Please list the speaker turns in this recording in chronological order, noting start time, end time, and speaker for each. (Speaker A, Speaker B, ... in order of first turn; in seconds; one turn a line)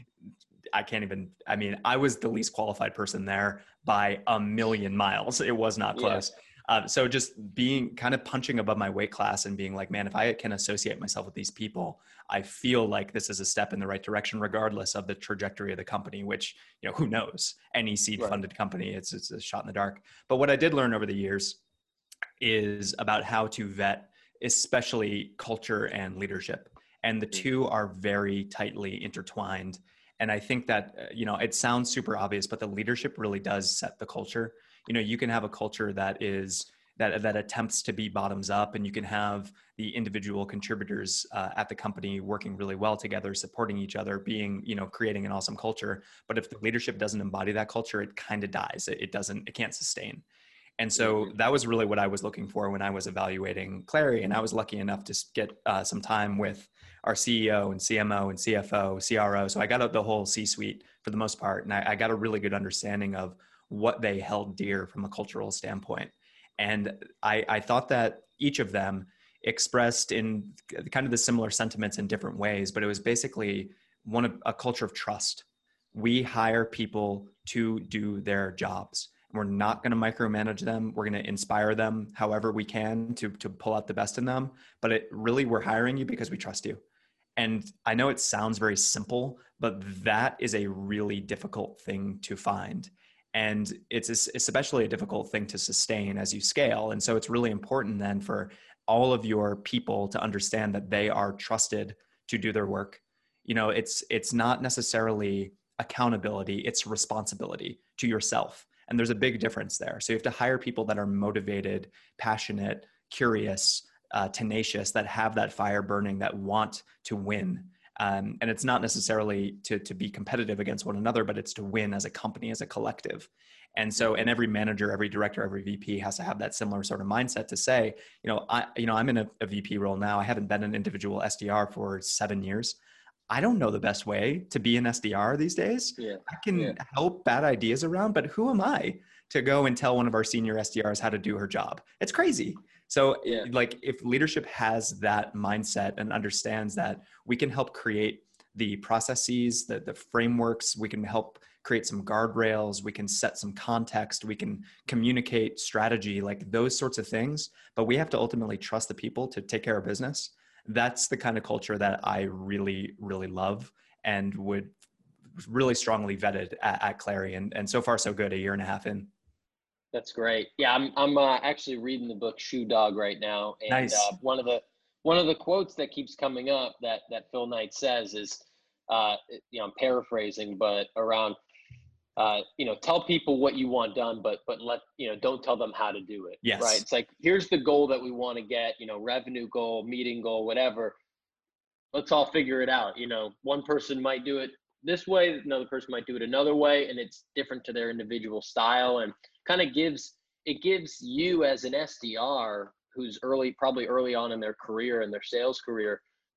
Speaker A: 0.7-21.6
Speaker B: 6.0-6.2
Speaker A: 22.4-50.2
Speaker A: 50.8-86.8
Speaker B: 51.0-51.3
Speaker A: 87.4-132.8
Speaker B: 124.0-124.3
Speaker A: 133.3-164.8
Speaker B: 136.0-136.8
Speaker A: 165.4-169.1
Speaker B: 169.9-181.4
Speaker A: 173.7-174.1
Speaker B: 182.2-190.9
Speaker A: 186.4-186.8
Speaker B: 191.9-206.0